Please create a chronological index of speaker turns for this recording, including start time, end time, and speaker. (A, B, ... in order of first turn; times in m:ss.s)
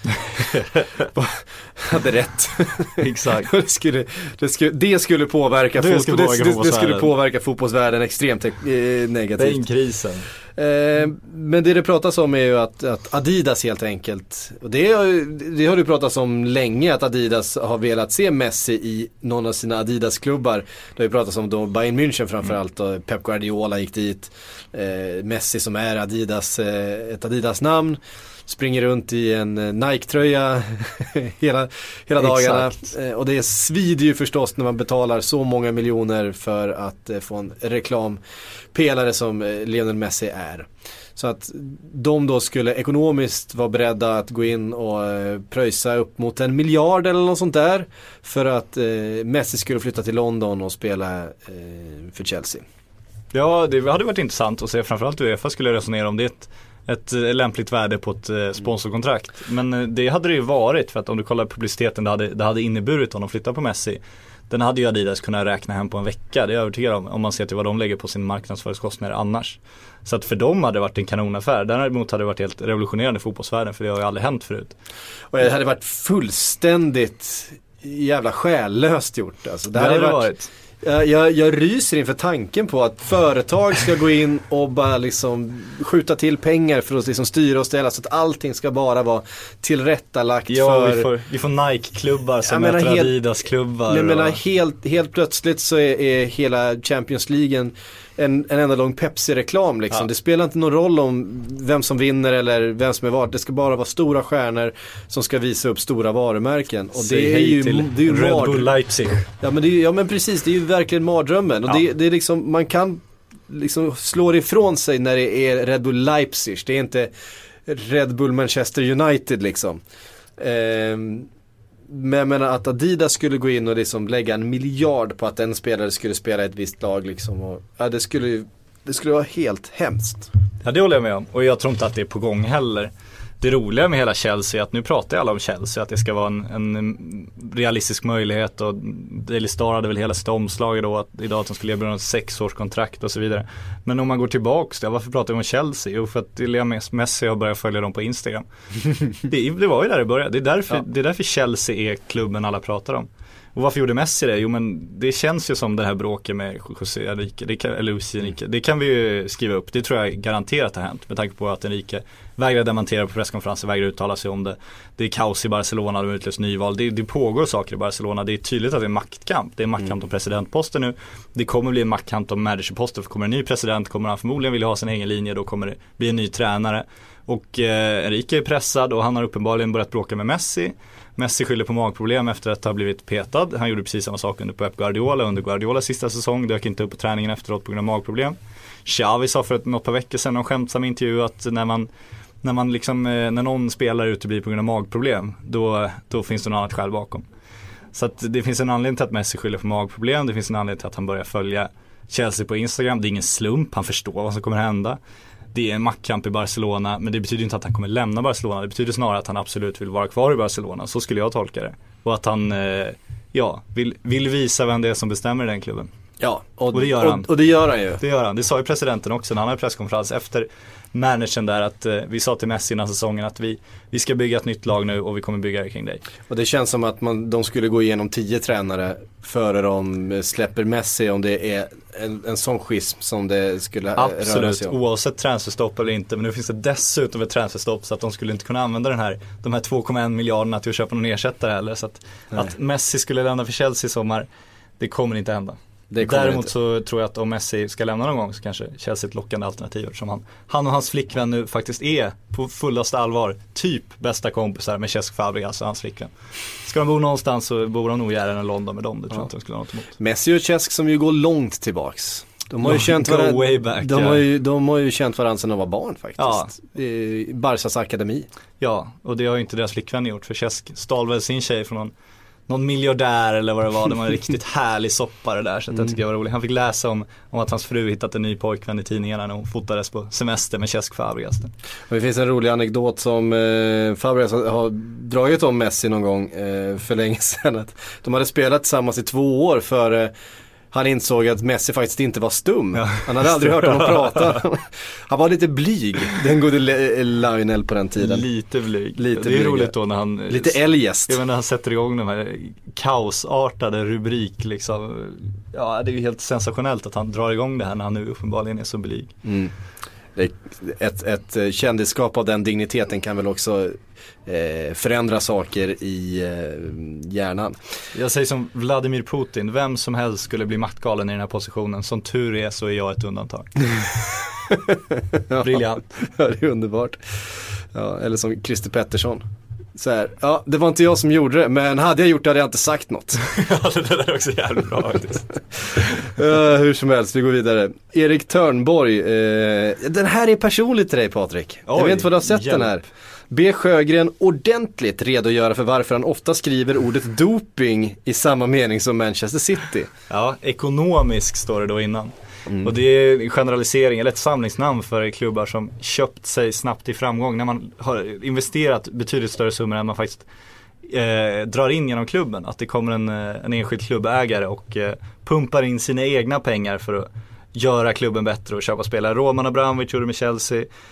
0:00.1-0:00.9 A
0:01.1-0:09.6 B
0:03.0-0:03.5 A
0:05.8-0:07.1 A
0:09.4-0:10.3 A
0:10.6-0:38.2 B
0:32.2-0:32.9 A
0:38.7-0:52.6 B
0:53.3-1:14.8 A
1:15.3-1:20.3 B
1:19.7-1:20.5 A
1:20.8-1:31.1 B
1:30.5-1:34.4 A
1:32.4-1:33.2 B
1:33.9-1:48.7 B
1:47.0-1:49.2 A
1:49.4-1:57.1 B
1:57.6-1:59.8 B
2:00.4-2:01.3 B
2:01.9-2:10.3 B
2:10.6-2:28.4 A
2:29.1-3:11.9 A
3:12.4-3:17.2 A
3:17.9-3:25.0 A
3:25.5-3:35.9 A
3:36.2-3:38.0 B
3:36.7-3:37.3 A
3:38.0-3:46.0 A
3:46.3-3:54.7 B
3:54.0-4:04.3 A
4:04.8-4:20.0 A
4:05.9-4:06.5 B
4:20.0-4:28.3 B
4:22.6-4:24.2 A
4:26.2-4:26.5 A
4:28.6-4:31.9 A
4:32.5-4:41.5 A
4:41.9-4:50.1 B
4:50.7-4:58.2 B
4:52.8-4:54.4 A
4:58.0-5:09.1 A
4:59.0-4:59.7 B
5:00.3-5:01.2 B
5:09.2-5:09.5 B
5:10.2-5:17.6 B
5:17.9-5:23.7 A
5:24.4-5:29.2 B
5:25.4-5:25.8 A
5:29.7-5:33.2 B
5:33.2-5:36.1 A
5:36.1-5:49.9 B
5:41.7-5:42.8 A
5:50.1-6:00.3 A
5:52.5-5:52.7 B
6:00.8-6:10.7 A